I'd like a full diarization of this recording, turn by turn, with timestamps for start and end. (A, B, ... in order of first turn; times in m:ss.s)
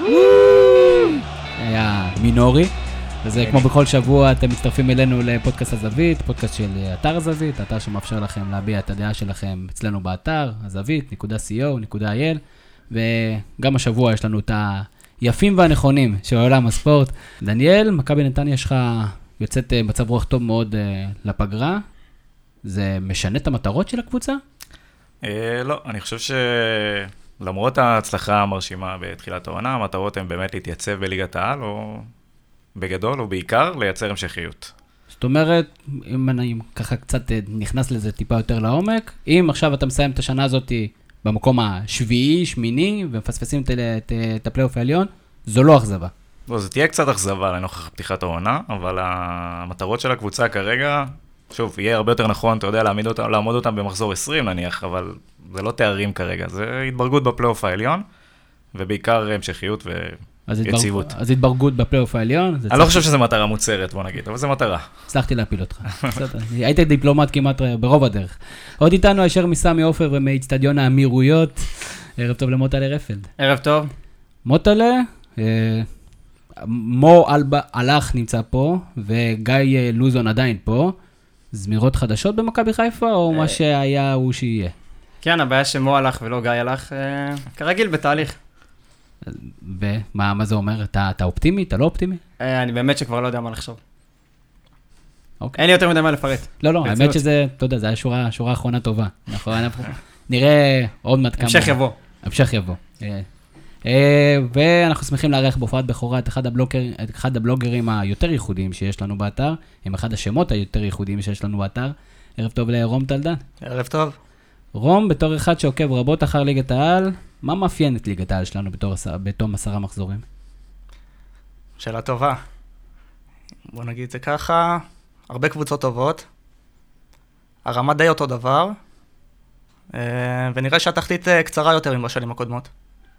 0:00.3-0:21.8 A
0:03.4-0:03.7 B
0:22.6-0:24.4 A
0:25.2-0:32.1 B
0:32.8-0:34.7 B
0:35.2-0:46.1 A
0:46.5-0:58.0 B
0:58.7-1:01.1 B
1:00.5-1:03.1 A
1:02.7-1:04.9 B
1:05.1-1:13.3 A
1:13.4-1:13.9 C
1:14.5-1:15.9 A
1:16.6-1:21.0 A
1:21.5-1:24.7 A
1:23.3-1:23.6 C
1:25.2-1:28.4 C
1:29.2-1:32.2 A
1:32.4-1:33.8 C
1:35.6-1:37.2 C
1:36.6-1:43.3 A
1:41.4-1:42.0 C
1:43.8-1:53.4 A
1:53.6-1:54.2 D
1:54.8-2:00.2 A
2:01.8-2:02.4 D
2:03.7-2:06.2 D
2:07.6-2:08.8 D
2:09.9-2:12.7 D